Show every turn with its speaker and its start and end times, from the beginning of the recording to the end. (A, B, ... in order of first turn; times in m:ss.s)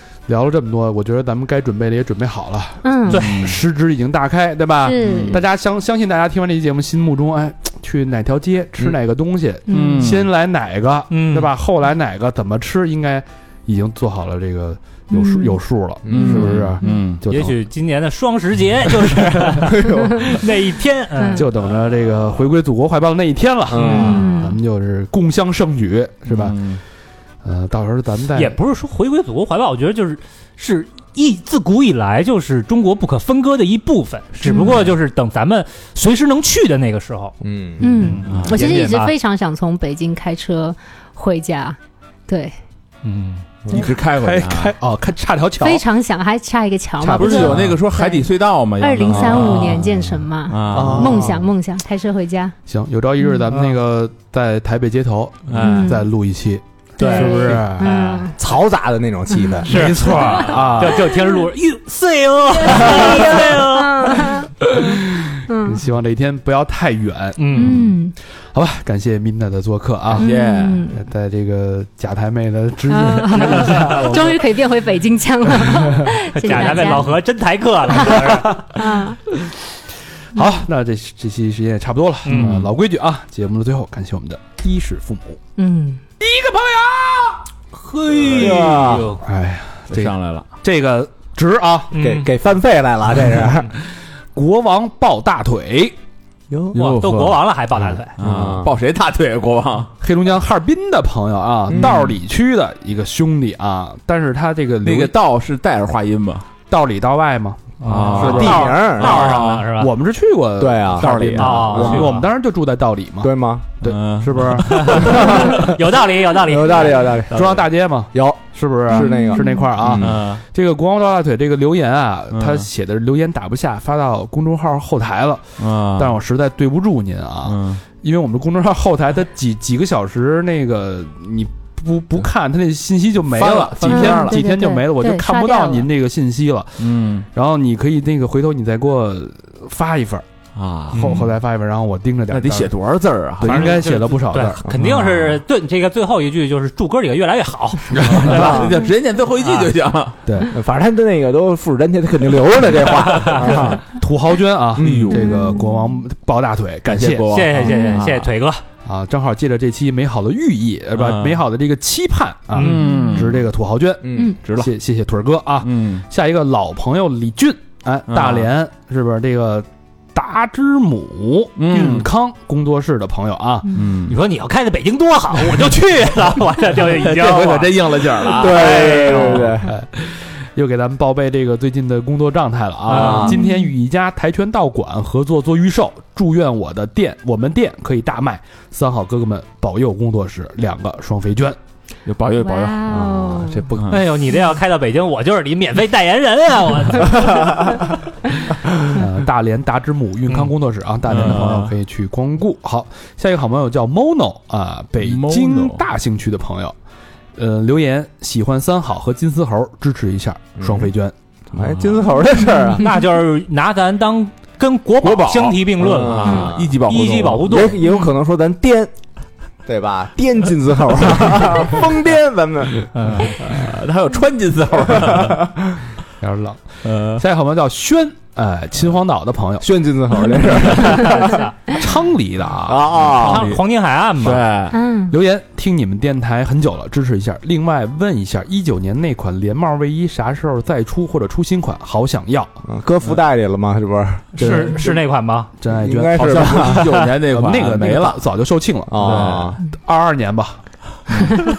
0:00.3-0:17.6 A
0:02.8-0:03.3 B
0:03.1-0:03.4 C
0:03.2-0:03.6 D
0:04.8-0:05.4 B
0:09.7-0:10.1 B
0:09.7-0:10.3 D
0:11.1-0:11.5 C
0:15.1-0:15.6 B
0:16.0-0:16.6 E
0:16.1-0:17.2 D
0:16.2-0:17.0 B
0:17.3-0:21.5 C
0:19.3-0:20.2 E
0:21.2-0:21.5 B
0:21.4-0:26.6 A
0:23.7-0:24.2 E
0:23.8-0:24.2 C
0:24.0-0:24.6 B
0:26.3-0:26.8 D
0:27.4-0:28.6 A
0:28.4-0:37.4 C
0:34.4-0:34.8 B
0:37.4-0:38.2 E
0:37.8-0:42.6 B
0:37.9-0:39.1 C
0:38.3-0:38.9 D
0:43.0-0:43.4 C
0:43.7-0:44.7 D
0:43.7-0:45.8 A
0:45.6-0:52.6 B
0:47.0-0:51.3 D
0:47.2-0:47.7 E
0:49.1-0:49.4 E
0:50.7-0:51.5 E
0:52.7-0:58.0 A
0:55.5-0:55.9 D
0:55.6-0:56.1 B
0:57.0-0:58.4 B
0:57.1-0:57.6 C
0:58.4-1:00.0 E
0:59.3-1:01.4 B
0:59.7-1:04.4 C
0:59.7-1:01.1 A
1:00.1-1:00.4 D
1:02.6-1:05.8 B
1:04.8-1:08.0 A
1:07.4-1:07.8 C
1:07.6-1:08.2 B
1:08.5-1:10.3 A
1:10.2-1:10.9 D
1:10.2-1:11.0 B
1:10.9-1:14.4 A
1:12.9-1:17.2 B
1:13.5-1:14.1 C
1:16.3-1:18.6 C
1:17.9-1:19.2 B
1:20.3-1:25.4 A
1:22.2-1:22.7 C
1:25.6-1:26.0 B
1:26.2-1:27.4 A
1:27.8-1:29.2 C
1:28.1-1:29.1 D
1:28.3-1:29.2 E
1:29.2-1:31.9 A
1:29.9-1:30.5 D
1:31.9-1:32.3 C
1:32.0-1:33.7 E
1:34.3-1:36.0 A
1:36.7-1:37.4 D
1:36.8-1:38.2 C
1:38.2-1:39.9 D
1:38.2-1:38.7 E
1:40.0-1:45.1 A
1:44.8-1:46.5 D
1:46.7-1:55.7 A
1:47.8-1:49.9 C
1:47.9-1:49.7 D
1:48.2-1:49.4 E
1:50.6-1:52.1 E
1:51.0-1:51.9 D
1:51.4-1:52.2 C
1:53.2-1:53.8 E
1:53.8-1:55.0 D
1:54.7-1:57.2 C
1:55.0-1:55.7 E
1:56.4-2:00.2 E
1:57.3-2:20.3 A
1:58.9-1:59.7 B
1:59.9-2:00.4 D
2:02.3-2:02.7 D
2:05.6-2:06.2 D
2:07.5-2:07.8 D
2:13.3-2:14.3 D
2:13.8-2:15.9 B
2:16.8-2:17.3 D
2:20.6-2:21.3 D
2:20.9-2:22.7 A
2:20.9-2:21.2 C
2:22.3-2:23.8 D
2:23.4-2:24.6 A
2:23.4-2:28.6 C
2:24.8-2:25.4 D
2:28.0-2:30.2 D
2:28.0-2:28.7 E
2:29.4-2:29.7 C
2:30.3-2:30.5 A
2:30.5-2:33.9 E
2:34.0-2:37.3 A
2:34.8-2:35.4 D
2:34.8-2:35.1 E
2:35.1-2:35.9 B
2:36.9-2:38.3 D
2:37.3-2:38.6 C
2:37.6-2:38.0 B
2:38.8-2:53.7 A
2:41.0-2:41.4 D
2:42.5-2:43.1 C
2:42.6-2:43.3 D
2:42.8-2:43.2 B
2:44.0-2:44.4 E
2:44.4-2:44.7 D
2:45.6-2:46.0 D
2:48.1-2:48.5 D
2:51.6-2:52.1 D
2:53.7-2:54.2 D
2:54.1-2:59.6 C
2:57.0-2:59.5 D
2:58.3-2:59.7 E
2:59.6-3:11.6 A
3:02.9-3:03.4 C
3:02.9-3:03.3 E
3:03.2-3:03.7 B
3:12.1-3:12.9 D
3:12.4-3:13.7 B
3:12.9-3:13.9 E
3:13.6-3:14.0 D
3:13.9-3:17.8 C
3:18.9-3:26.8 A
3:21.1-3:21.7 D
3:25.0-3:25.8 D
3:27.4-3:31.1 A
3:30.6-3:30.9 E
3:31.6-3:32.1 D
3:31.6-3:32.9 E
3:32.8-3:37.8 C
3:35.0-3:37.4 D
3:35.8-3:36.8 E
3:36.2-3:36.5 B
3:37.4-3:38.9 E
3:39.7-3:42.9 E
3:43.0-3:43.3 C
3:43.2-3:45.4 D
3:46.2-3:49.7 A
3:46.8-3:47.2 D
3:49.6-3:51.4 E
3:51.2-3:51.5 C
3:51.7-3:53.0 A
3:52.7-3:53.5 E
3:53.0-3:53.6 D
3:53.2-3:54.4 C
3:54.2-3:54.8 D
3:54.7-3:55.2 B
3:55.1-4:02.6 A
4:02.7-4:04.8 E
4:04.4-4:05.5 C
4:04.4-4:05.0 A
4:05.6-4:10.6 A
4:05.8-4:07.0 E
4:06.2-4:08.2 D
4:08.9-4:09.6 E
4:09.0-4:09.5 D
4:11.1-4:11.5 D